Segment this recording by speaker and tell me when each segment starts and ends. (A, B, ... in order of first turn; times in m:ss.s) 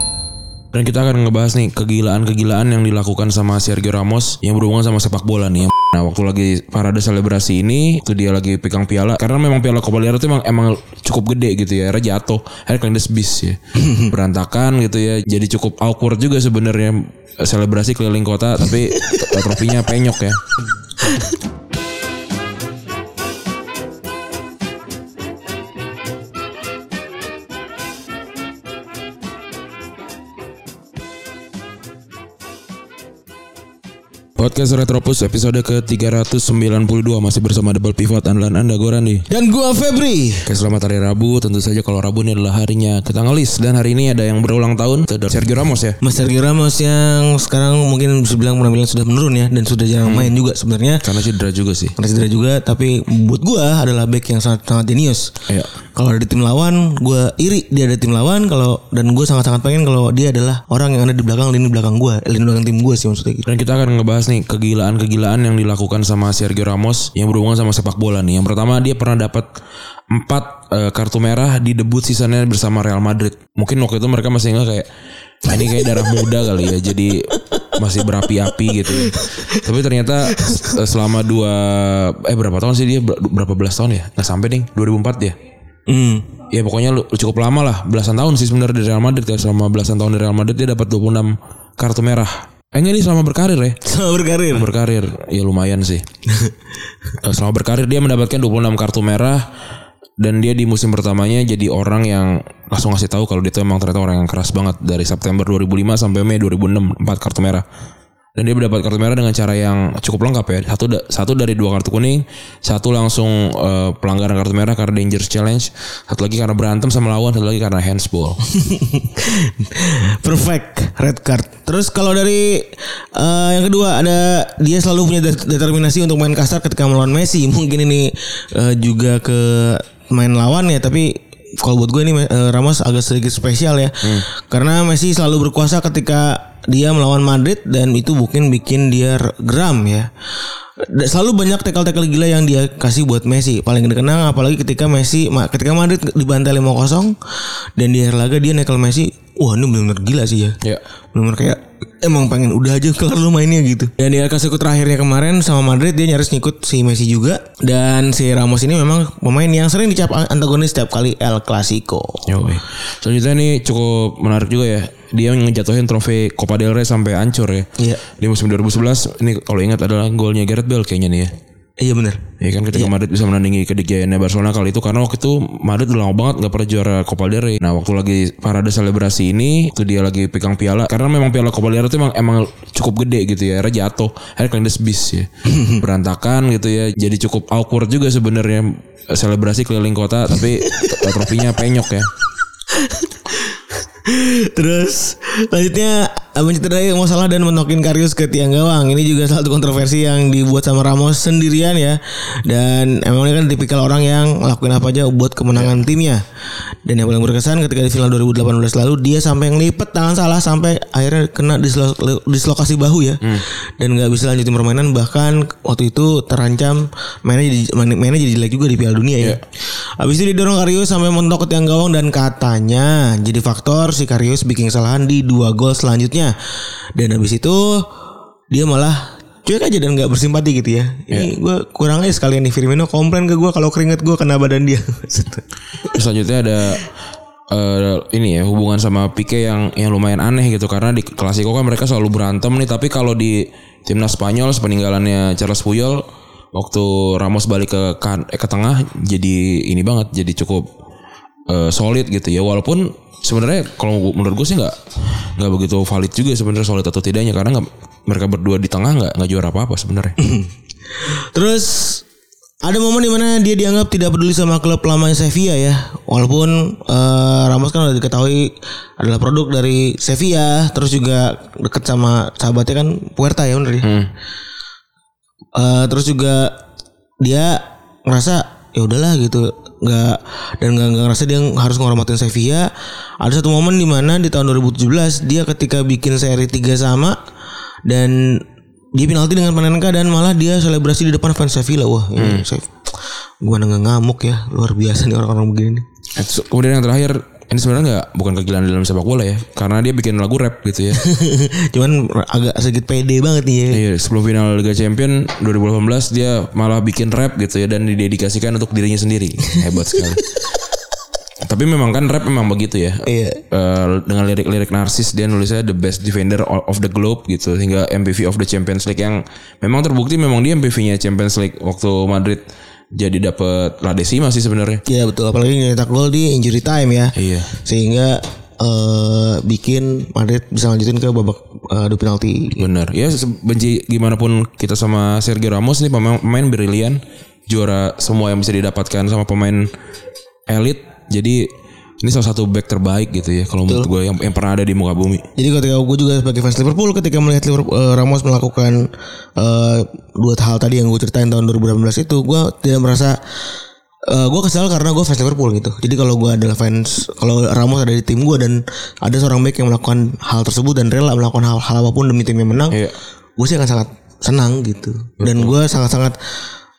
0:00.7-0:20.4 A
0:34.4-0:39.3 A
0:39.3-0:40.5 B
0:40.4-0:46.0 A
0:46.0-0:51.1 B
0:50.0-0:50.3 A
0:51.0-0:52.0 A
0:52.0-0:55.4 B
0:55.9-1:03.5 B
1:03.5-1:09.5 A
1:10.1-1:14.9 A
1:15.4-1:25.4 A
1:19.0-1:19.4 B
1:25.9-1:26.3 B
1:26.5-1:33.8 A
1:33.8-1:34.7 B
1:34.5-1:36.0 A
1:37.2-1:39.5 A
1:40.2-1:47.6 A
1:48.4-1:58.4 A
1:58.5-2:20.1 B
2:20.9-2:30.6 B
2:31.1-2:42.3 B
2:42.3-2:51.3 A
2:51.8-2:52.9 B
2:52.4-3:12.1 A
3:12.7-3:26.2 B
3:25.6-3:25.8 A
3:26.8-3:46.3 B
3:47.0-3:47.9 B
3:48.5-3:55.4 B
3:55.9-3:56.9 A
3:57.5-4:06.0 A
4:06.5-4:10.7 A
4:11.5-4:20.2 A
4:20.2-4:22.0 B
4:22.6-4:33.9 B
4:33.8-4:34.1 A
4:35.6-4:36.6 B
4:37.2-4:42.7 B
4:43.2-4:47.2 B
4:47.9-4:48.4 B
4:48.9-4:55.8 B
4:52.2-4:52.5 A
4:56.2-5:01.0 A
5:00.9-5:03.8 B
5:03.7-5:10.2 A
5:11.4-5:22.4 A
5:13.1-5:13.4 B
5:23.0-5:24.8 A
5:24.9-5:32.7 B
5:27.2-5:27.5 A
5:32.6-5:39.7 A
5:40.5-5:41.5 A
5:42.0-5:45.2 A
5:45.4-5:53.2 B
5:54.1-6:02.8 B
6:02.7-6:03.0 A
6:03.4-6:06.2 B
6:05.2-6:05.6 A